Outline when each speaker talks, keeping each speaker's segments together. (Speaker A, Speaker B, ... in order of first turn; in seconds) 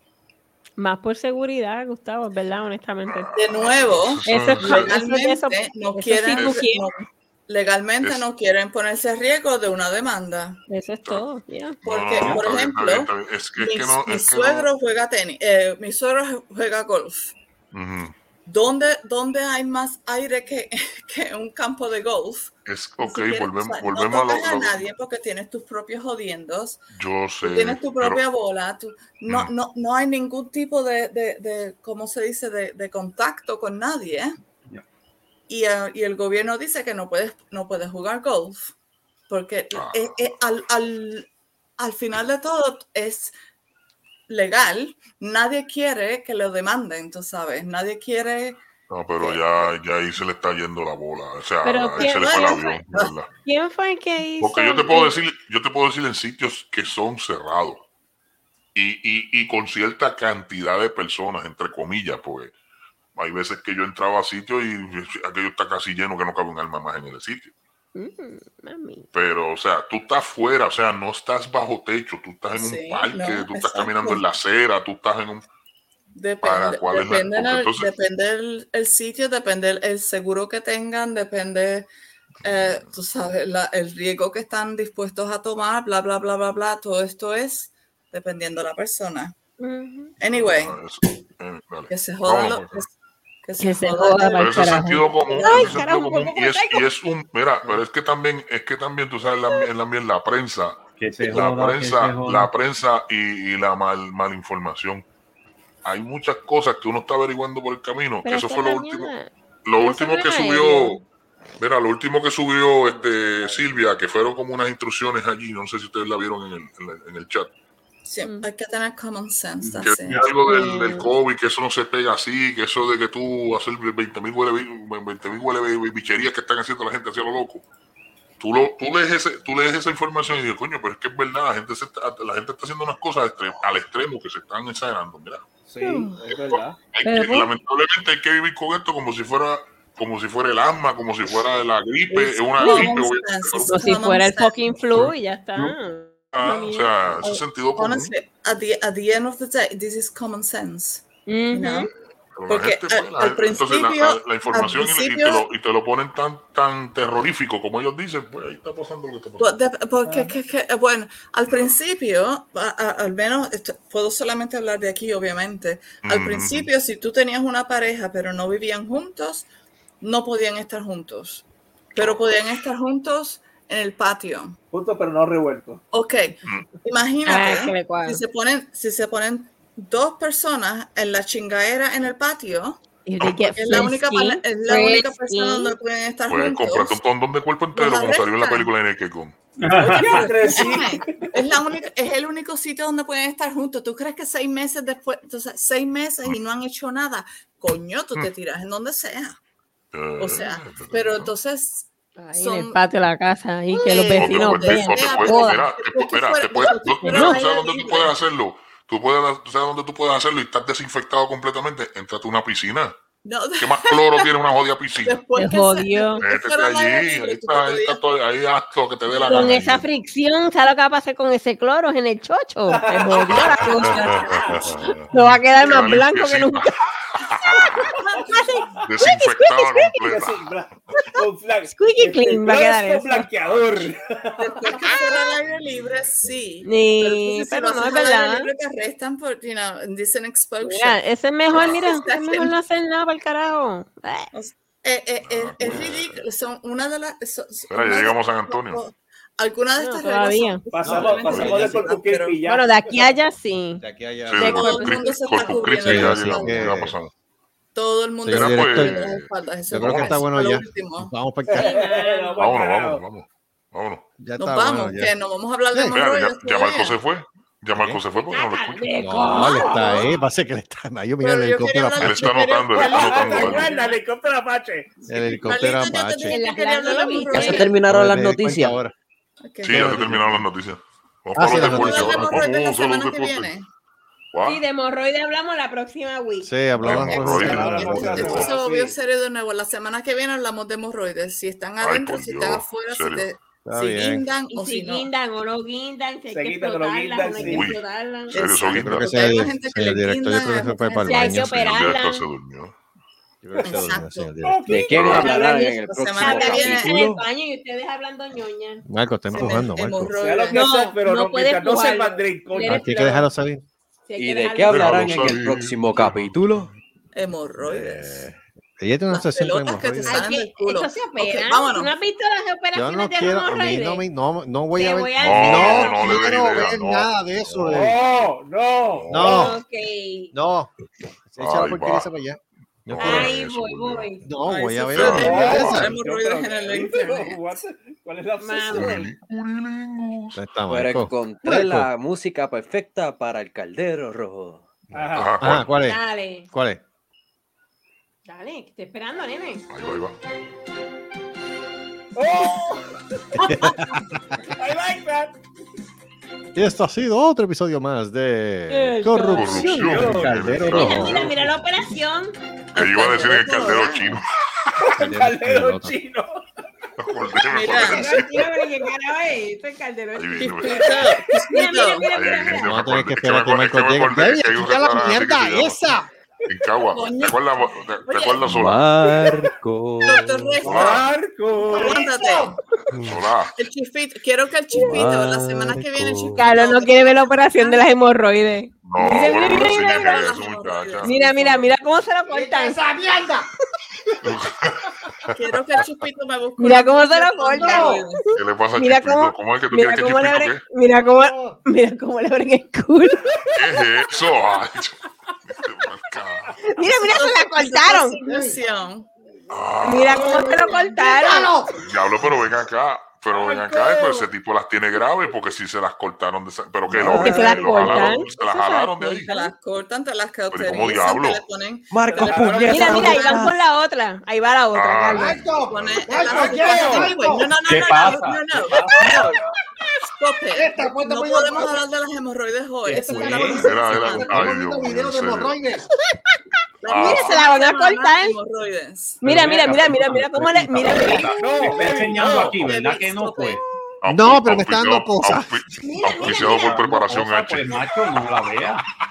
Speaker A: 0.8-3.3, 4.2-6.9, 10.7-11.8, 51.6-52.8, 53.4-55.2, 67.9-69.1, 89.6-90.1, 93.6-96.9, 108.2-111.0, 118.2-118.5, 120.4-121.1, 137.0-137.5, 142.6-143.1, 143.6-147.3, 151.2-151.9, 177.2-178.2, 183.1-185.8, 190.5-190.8, 202.2-205.7, 207.0-207.7, 215.3-216.2, 219.2-226.8, 227.4-227.7, 228.3-230.0, 231.7-233.3, 234.7-235.3, 236.6-238.5, 240.6-244.3, 249.8-250.7, 252.4-253.8, 254.4-255.8, 261.5-262.4, 268.2-270.1, 276.2-277.7, 284.4-286.6, 294.5-298.6, 300.9-302.3, 304.9-308.8, 310.5-313.3, 314.1-315.4, 320.0-324.0, 324.7-326.6, 329.2-330.3, 332.9-334.3, 338.4-339.1, 345.7-346.5, 348.2-349.6, 358.7-362.4, 367.9-372.7, 386.4-390.4, 391.0-392.8, 396.6-403.4, 406.6-408.2, 409.8-411.5, 417.0-419.5, 422.7-425.4, 436.9-438.4, 439.2-441.3, 445.8-446.8
Speaker B: 3.0-5.0, 6.3-6.6, 11.8-14.7, 17.7-18.1, 22.6-24.9, 26.9-28.2, 29.3-29.5, 39.7-40.2, 48.9-53.3, 54.4-57.8, 58.7-62.5, 63.1-67.5, 69.1-75.4, 76.4-77.9, 82.4-82.9, 90.3-92.8, 94.4-105.0, 105.8-109.1, 109.6-111.0, 111.6-117.5, 119.8-127.6, 128.4-135.4, 136.9-143.8, 144.9-145.7, 146.3-148.1, 152.3-159.5, 166.0-166.7, 172.0-172.6, 186.3-189.3, 199.9-201.3, 204.2-212.9, 213.6-215.2, 216.2-219.8, 223.3-224.6, 225.6-227.9, 228.8-230.4, 241.5-241.9, 245.2-246.2, 247.7-248.8, 251.2-251.6, 254.3-257.1, 258.3-260.2, 262.4-264.1, 265.9-269.4, 272.0-273.8, 279.6-283.5, 284.3-284.6, 286.8-288.5, 291.8-293.3, 297.4-299.5, 301.3-302.7, 304.9-305.3, 314.7-316.4, 325.1-327.6, 328.9-329.4, 331.4-332.1, 332.9-334.1, 334.9-335.9, 338.7-340.4, 345.1-345.7, 349.7-350.2, 359.3-361.3, 362.7-364.3, 367.0-368.5, 370.1-370.9, 372.1-378.8, 380.6-381.1, 383.0-383.5, 388.8-391.1, 394.2-395.4, 398.3-400.6, 403.5-406.5, 409.5-410.1, 411.8-419.3, 420.5-421.4, 424.7-426.1, 433.6-435.6, 436.9-437.4, 444.0-447.8
Speaker C: 3.3-10.6, 11.8-17.3, 18.4-26.8, 27.4-34.3, 35.5-38.7, 39.3-41.3, 41.8-43.3, 44.3-48.6, 49.2-49.7, 52.0-53.0, 72.5-74.2, 76.1-81.9, 82.4-89.3, 90.2-90.8, 91.9-92.9, 93.4-95.8, 118.0-120.2, 142.1-144.7, 147.2-151.9, 152.5-155.4, 159.4-169.5, 170.0-174.6, 175.9-187.0, 187.7-188.7, 189.7-199.4, 200.2-202.8, 203.7-208.2, 213.2-214.3, 215.0-218.0, 223.6-224.4, 228.1-228.4, 234.4-242.5, 244.3-252.4, 254.4-256.8, 257.7-261.1, 264.4-267.0, 271.2-273.9, 275.4-277.7, 279.4-280.1, 281.5-283.7, 287.7-295.1, 298.3-301.6, 303.6-304.3, 305.1-307.2, 309.3-310.6, 317.1-318.3, 319.1-321.9, 334.4-337.4, 362.7-364.2, 367.5-368.1, 370.4-372.1, 376.8-378.5, 380.0-381.1, 381.7-382.6, 383.6-388.0, 389.0-391.7, 395.3-398.3, 407.1-409.1, 419.2-423.5, 425.6-429.4, 430.0-434.6, 436.8-439.2, 442.1-443.6
Speaker D: 101.0-102.5, 119.6-120.3, 189.6-190.3, 427.6-429.2, 432.9-433.7, 439.2-443.6, 446.2-448.8
Speaker E: 135.7-136.8, 160.1-160.3, 174.7-175.8, 190.0-191.3, 222.7-224.7, 227.6-228.8, 230.1-234.8, 250.7-253.1, 261.5-263.0, 269.4-270.1, 272.7-275.5, 286.8-288.9, 296.3-297.8, 303.6-303.9, 304.4-304.8, 310.2-312.8, 327.6-329.5, 335.2-338.9, 344.9-345.4, 352.1-353.6, 354.6-355.3, 359.8-360.5, 364.8-366.4, 367.8-368.7, 371.0-371.4, 379.1-379.4, 380.6-382.0, 413.3-414.3, 422.1-422.9, 426.2-427.1, 441.2-442.6
Speaker F: 203.7-204.2, 253.8-254.6, 255.8-256.9, 258.2-259.1, 259.7-261.8, 264.2-265.1, 265.7-266.0, 267.7-268.0, 269.0-272.3, 275.1-276.4, 277.7-278.9, 279.7-280.4, 281.3-282.5, 286.4-288.5, 293.6-294.2, 298.7-301.8, 303.4-304.7, 308.8-310.2, 312.6-313.6, 317.6-320.2, 322.7-328.0, 329.1-329.6, 330.3-330.7, 331.3-333.3, 334.2-335.9, 340.3-341.9, 345.4-346.0, 346.5-346.8, 353.3-354.2, 356.5-361.2, 364.9-366.0, 372.6-376.1, 381.9-382.5, 392.3-393.4, 397.6-398.0, 401.0-401.6, 408.2-408.6, 410.1-411.7, 425.1-427.4, 430.5-431.7, 432.9-435.9, 444.1-445.6
Speaker G: 277.3-278.8, 304.7-307.2, 314.2-316.7, 340.7-344.7, 378.4-380.6, 384.7-386.5, 416.9-417.7, 421.9-423.6